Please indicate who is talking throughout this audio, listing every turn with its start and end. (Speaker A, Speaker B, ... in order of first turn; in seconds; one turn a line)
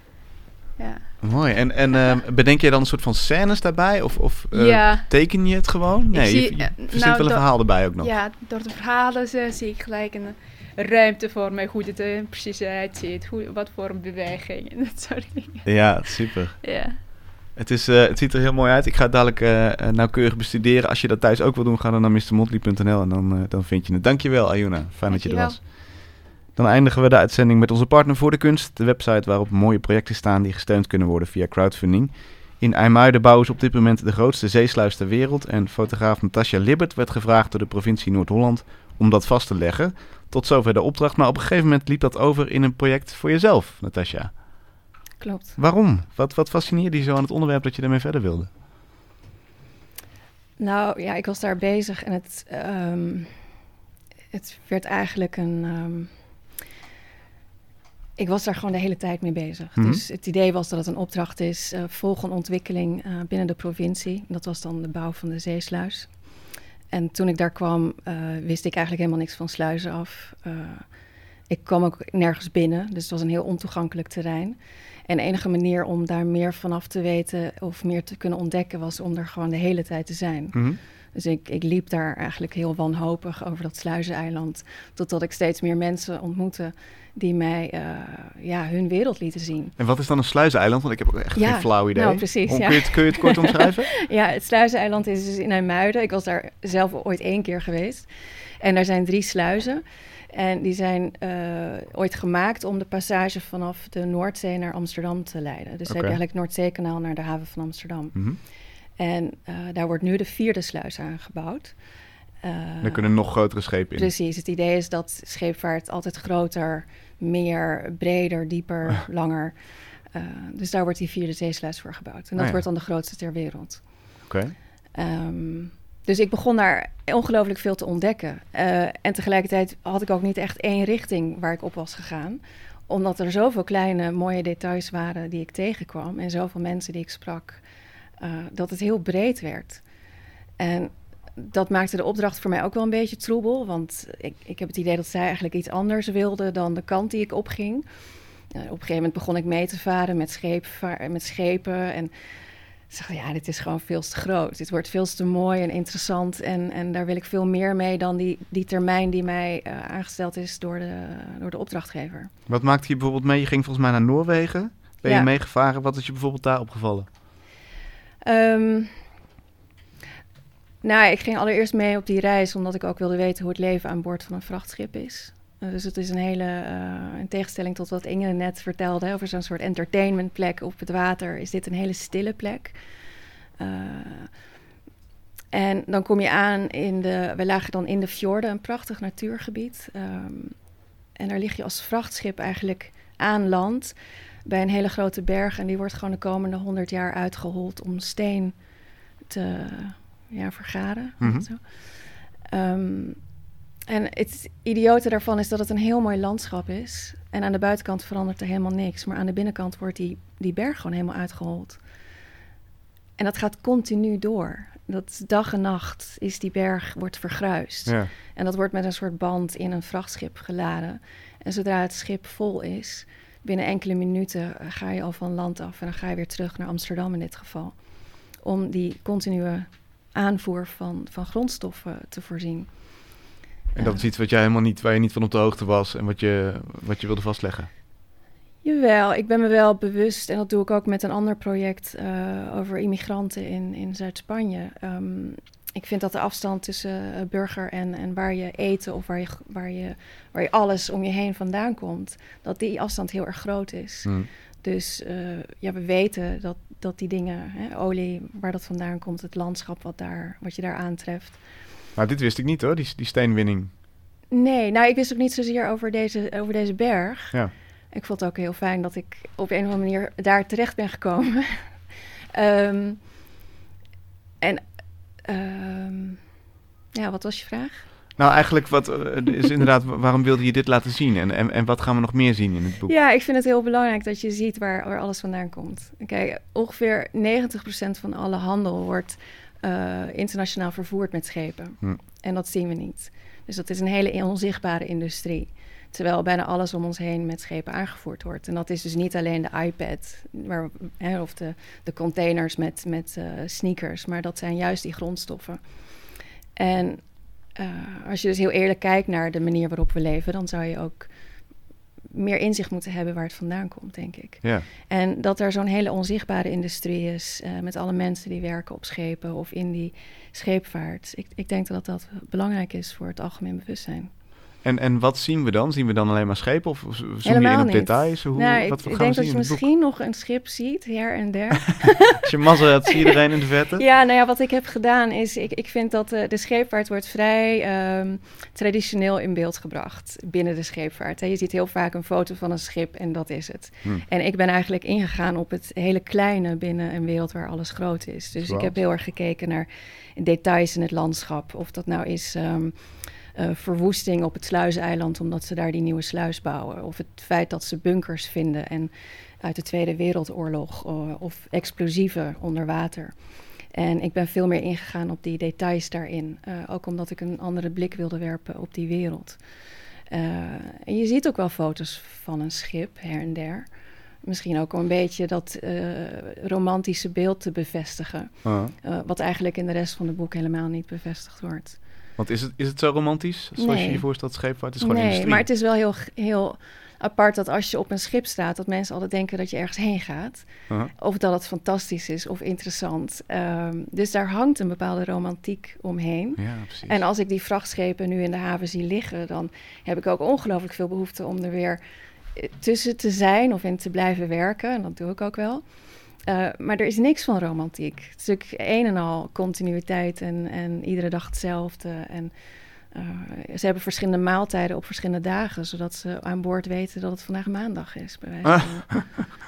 Speaker A: 0.8-2.1
Speaker B: 1.2-8.1
Speaker A: 4.5-17.0
Speaker B: 15.7-44.4
Speaker A: 25.1-25.6
Speaker C: 45.2-45.6
Speaker B: 45.6-48.5
Speaker C: 50.6-53.5
Speaker C: 54.3-56.5
Speaker C: 58.2-89.8
Speaker B: 59.8-60.0
Speaker B: 80.5-80.8
Speaker B: 89.8-93.9
Speaker C: 91.3-124.2
Speaker B: 105.9-106.2
Speaker B: 108.1-108.4
Speaker B: 112.8-114.1
Speaker B: 122.4-122.6
Speaker B: 124.3-124.5
Speaker C: 124.9-137.6
Speaker C: 138.2-139.9
Speaker C: 140.6-147.9
Speaker C: 148.4-162.3
Speaker B: 162.5-167.1
Speaker C: 165.0-165.3
Speaker C: 168.2-169.0
Speaker C: 170.8-182.8
Speaker C: 183.6-184.4
Speaker C: 185.5-212.0
Speaker B: 201.2-201.5
Speaker C: 213.2-234.0
Speaker B: 217.9-218.1
Speaker B: 233.8-237.7
Speaker C: 238.6-261.6
Speaker B: 262.0-263.7
Speaker C: 264.3-271.8
Speaker C: 272.3-273.1
Speaker C: 274.4-276.2
Speaker C: 276.9-278.0
Speaker B: 278.2-282.9
Speaker C: 282.9-311.5
Speaker C: 312.1-324.1
Speaker B: 324.6-329.6
Speaker C: 327.2-332.3
Speaker B: 332.2-333.8
Speaker C: 332.9-333.2
Speaker C: 333.8-381.9
Speaker B: 348.4-348.7
Speaker B: 378.4-378.7
Speaker B: 382.2-385.4
Speaker C: 383.6-419.3
Speaker B: 396.4-397.0
Speaker B: 418.5-419.3